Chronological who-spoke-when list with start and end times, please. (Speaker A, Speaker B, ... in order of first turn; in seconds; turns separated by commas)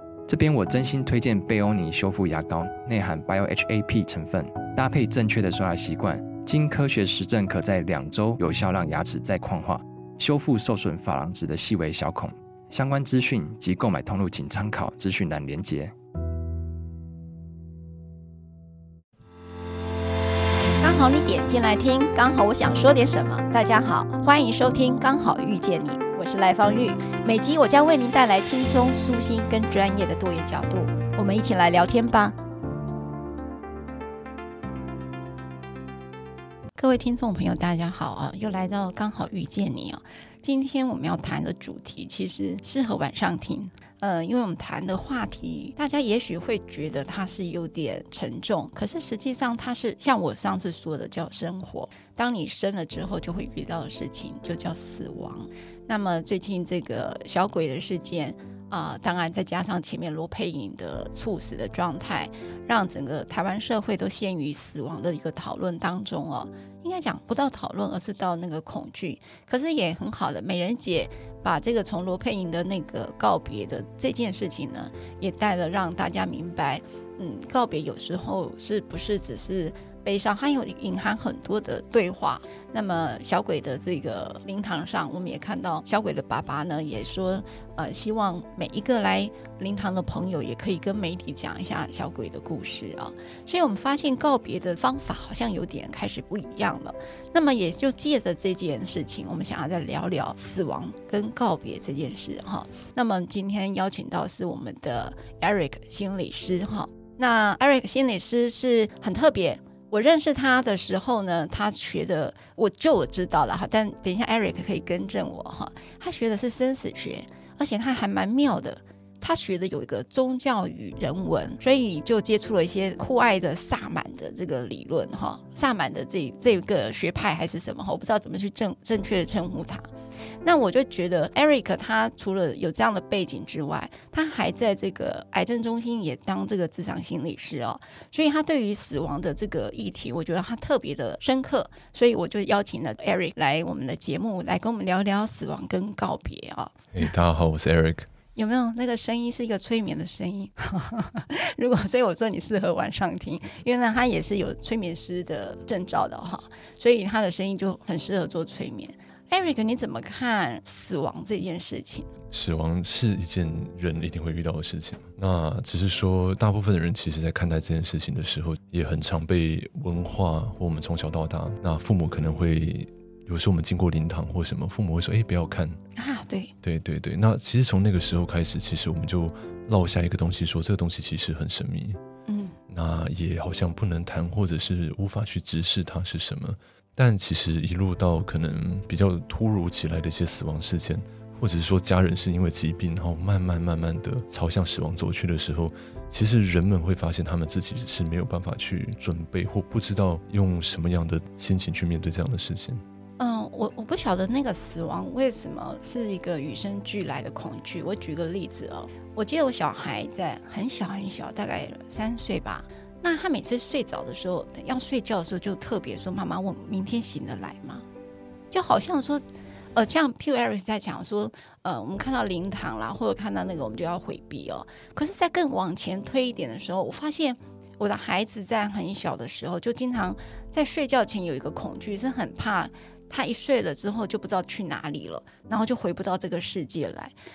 Speaker A: 0.3-15.9, Speaker B: 20.8-32.4, Speaker B: 36.8-129.9, Speaker B: 130.4-146.8, Speaker C: 146.9-148.1, Speaker B: 148.3-162.1, Speaker C: 162.3-175.8, Speaker B: 175.9-176.5, Speaker C: 176.6-182.0, Speaker B: 182.3-182.6, Speaker C: 182.7-202.8, Speaker B: 203.2-217.8, Speaker B: 218.5-219.2, Speaker B: 219.7-237.1